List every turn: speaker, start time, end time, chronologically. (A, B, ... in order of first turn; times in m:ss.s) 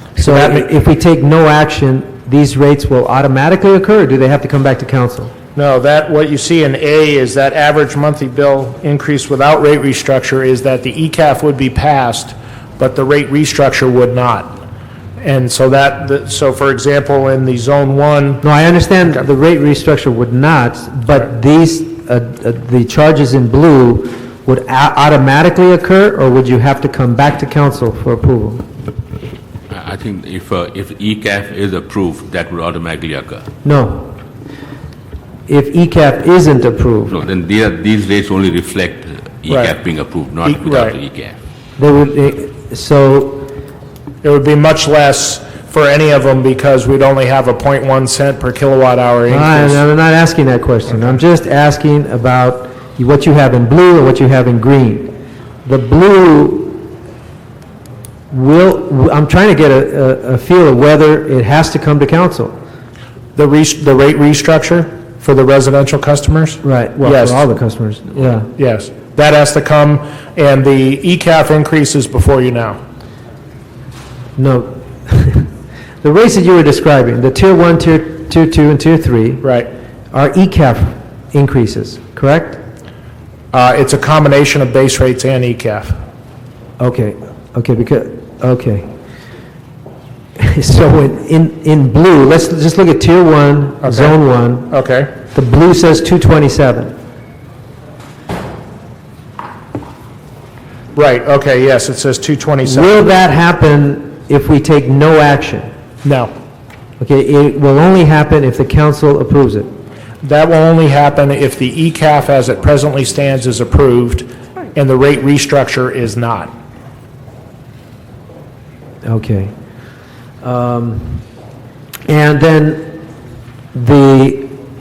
0:00.2-0:00.7 A
0:00.2-0:05.3 B
0:05.6-0:14.5 A
0:15.2-0:18.4 A
0:18.4-0:28.6 B
0:29.7-0:33.5 C
0:33.6-0:34.1 B
0:35.5-0:37.2 B
0:37.1-0:41.3 C
0:39.5-0:39.8 A
0:40.4-0:41.0 A
0:41.8-0:43.5 B
0:44.2-0:49.8 A
0:49.3-0:55.1 B
0:55.6-0:56.9 B
0:58.3-1:02.5 B
1:03.3-1:07.4 A
1:06.6-1:08.5 B
1:08.6-1:12.8 A
1:14.4-1:15.5 B
1:16.0-1:19.4 B
1:19.4-1:19.7 A
1:20.1-1:22.6 B
1:23.5-1:26.0 A
1:26.8-1:28.8 B
1:30.4-1:34.7 B
1:33.8-1:35.1 A
1:35.3-1:36.9 B
1:40.9-1:43.0 A
1:42.6-1:45.7 B
1:46.0-1:46.3 A
1:47.0-1:49.7 B
1:50.2-1:56.5 A
1:59.0-1:59.5 B
2:00.4-2:01.2 B
2:02.1-2:02.9 B
2:03.7-2:04.5 B